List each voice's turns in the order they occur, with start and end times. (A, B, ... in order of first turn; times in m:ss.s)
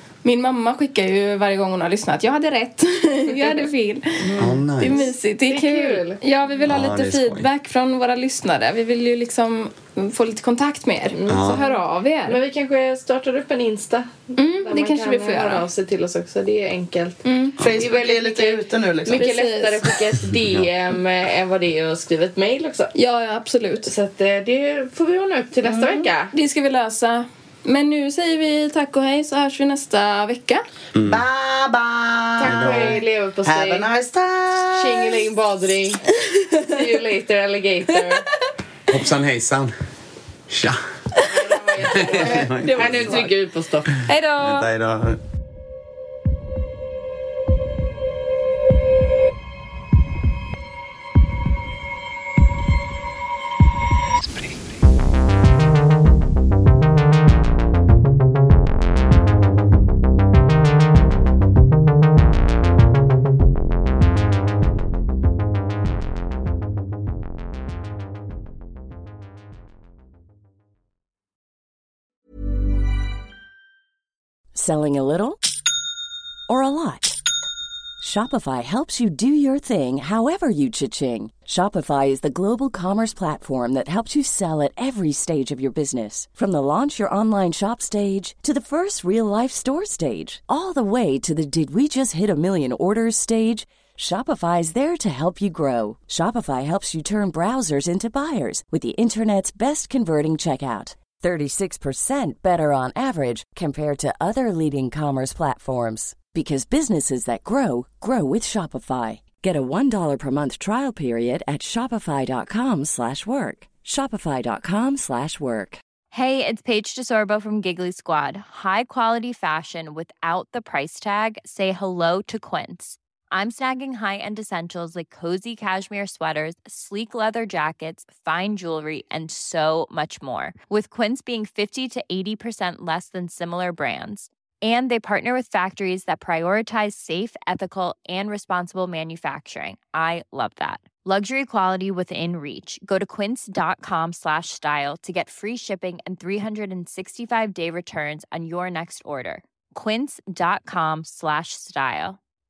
0:00.2-0:12.4 A
0:04.2-0:04.6 B
0:04.4-0:05.0 C
0:04.9-0:06.2 D
0:06.6-0:07.5 C
0:11.1-0:22.9 D
0:11.3-0:11.6 C
0:14.4-0:15.6 A
0:17.2-0:17.6 A
0:17.6-0:19.3 B
0:19.1-0:19.9 A
0:22.9-0:23.9 A
0:23.9-0:26.3 D
0:25.7-0:30.6 A
0:30.9-0:31.2 C
0:31.0-0:35.3 B
0:32.4-0:33.9 D
0:32.4-0:33.0 C
0:34.7-0:38.2 D
0:36.2-0:36.7 A
0:38.9-0:39.7 C
0:40.5-0:40.8 C
0:41.2-0:43.9 D
0:41.8-0:43.2 C
0:42.7-0:43.2 A
0:44.0-0:44.7 A
0:44.4-0:45.2 C
1:14.5-1:15.4 E
1:16.5-1:17.2 E
1:18.0-1:55.8 E
1:56.1-2:32.2 F